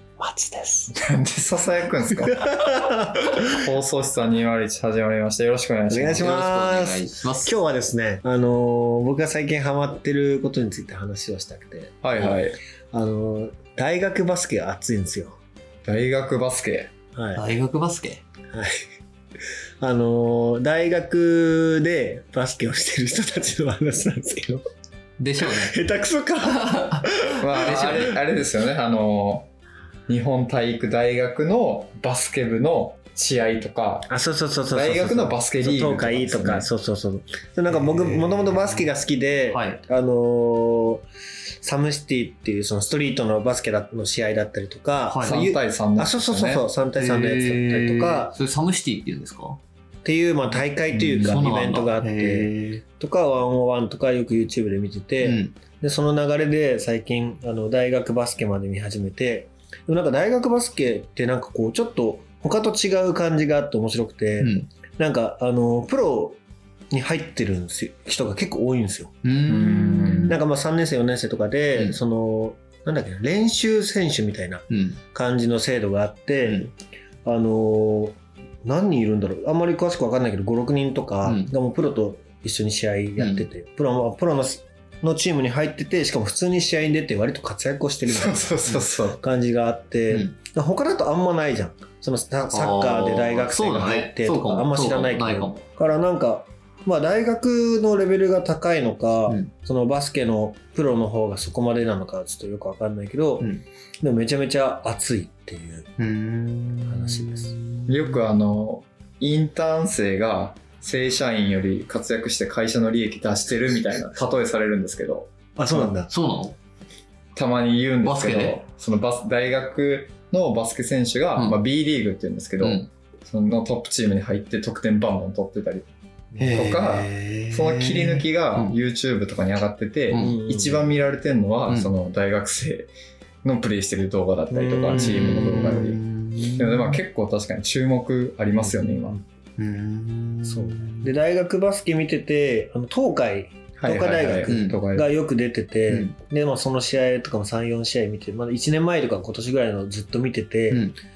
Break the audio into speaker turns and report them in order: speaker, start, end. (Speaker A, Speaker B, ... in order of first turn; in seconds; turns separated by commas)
Speaker A: 0.2-0.9, Speaker B: 0.9-2.4, Speaker A: 2.3-3.4, Speaker B: 3.5-6.4, Speaker A: 5.9-15.3, Speaker C: 6.2-7.5, Speaker B: 12.0-12.6, Speaker B: 15.8-16.9, Speaker A: 17.1-17.4, Speaker C: 17.3-18.2, Speaker A: 18.5-18.8, Speaker A: 19.8-24.6, Speaker C: 25.2-25.7, Speaker A: 25.4-28.1, Speaker C: 26.7-27.0, Speaker B: 27.4-29.5, Speaker C: 27.5-28.1, Speaker B: 30.1-34.1, Speaker A: 34.1-41.0, Speaker B: 34.7-36.7, Speaker C: 37.7-38.8, Speaker C: 39.5-39.8, Speaker A: 41.6-48.4, Speaker C: 45.1-45.5, Speaker B: 45.2-46.6, Speaker C: 46.9-49.6, Speaker A: 50.0-66.4, Speaker C: 50.5-52.8, Speaker C: 55.2-55.5, Speaker C: 64.4-64.7, Speaker A: 66.9-69.2, Speaker C: 69.2-70.4, Speaker B: 69.5-70.4, Speaker A: 70.3-103.5, Speaker C: 74.7-75.0, Speaker C: 81.2-81.5, Speaker C: 83.2-83.5, Speaker B: 88.0-89.2, Speaker C: 92.5-95.6, Speaker A: 104.0-105.9, Speaker C: 106.0-108.2, Speaker A: 106.9-107.5, Speaker B: 107.9-115.3, Speaker A: 115.5-116.1, Speaker C: 115.7-116.6, Speaker B: 117.3-125.9, Speaker C: 118.0-118.6, Speaker C: 122.6-122.9, Speaker C: 126.3-128.8, Speaker B: 126.5-132.9, Speaker C: 130.1-130.4, Speaker A: 130.1-130.9, Speaker B: 133.4-136.0, Speaker A: 134.5-135.9, Speaker C: 134.9-137.0, Speaker B: 136.6-139.2, Speaker A: 138.7-139.2, Speaker C: 139.6-141.1, Speaker A: 140.4-150.9, Speaker B: 143.8-145.1, Speaker C: 144.5-144.8, Speaker C: 145.9-146.1, Speaker C: 150.7-151.0